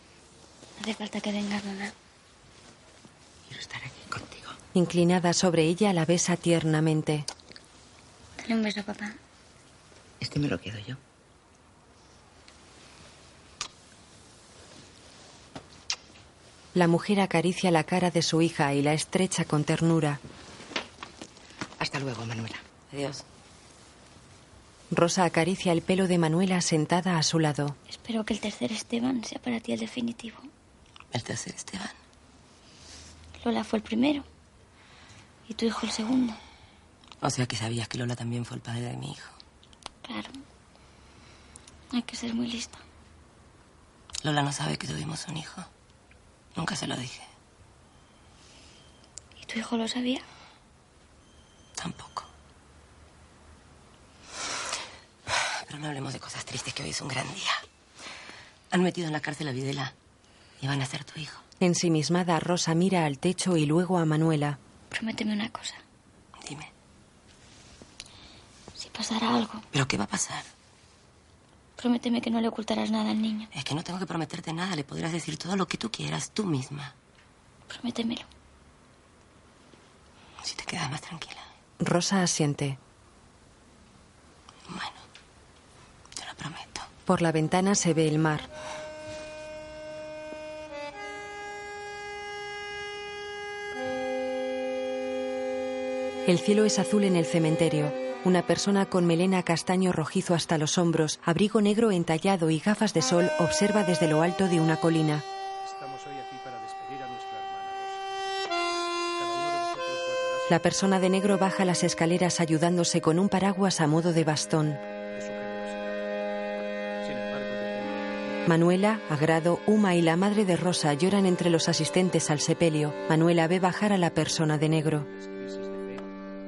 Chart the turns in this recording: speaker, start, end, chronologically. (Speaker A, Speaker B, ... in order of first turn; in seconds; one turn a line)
Speaker A: 0.8-1.9
Speaker B: 3.5-4.6
Speaker C: 4.8-7.3
Speaker A: 8.4-9.2
Speaker B: 10.2-11.0
Speaker C: 16.8-20.2
Speaker B: 21.8-22.6
Speaker D: 22.9-23.2
Speaker C: 24.9-27.8
Speaker A: 27.9-30.5
Speaker D: 31.1-31.9
Speaker A: 33.4-34.3
Speaker A: 35.5-36.4
Speaker D: 37.2-39.3
Speaker A: 40.0-40.4
Speaker A: 41.9-42.8
Speaker D: 44.2-45.7
Speaker D: 46.6-47.3
Speaker A: 49.4-50.2
Speaker D: 51.8-52.3
Speaker D: 55.3-57.6
Speaker D: 58.7-59.9
Speaker D: 60.6-61.4
Speaker C: 61.6-64.6
Speaker A: 64.9-65.8
Speaker D: 66.4-66.7
Speaker A: 68.8-69.7
Speaker D: 69.7-70.5
Speaker A: 71.8-73.5
Speaker D: 73.5-76.9
Speaker A: 77.7-78.3
Speaker D: 80.4-81.5
Speaker C: 81.8-82.8
Speaker D: 84.7-85.0
Speaker D: 86.2-86.9
Speaker C: 87.1-88.5
Speaker C: 96.3-105.2
Speaker E: 105.6-108.0
Speaker E: 109.2-110.7
Speaker C: 110.5-114.8
Speaker E: 115.1-116.0
Speaker E: 117.0-118.5
Speaker C: 118.5-125.1
Speaker E: 125.1-126.1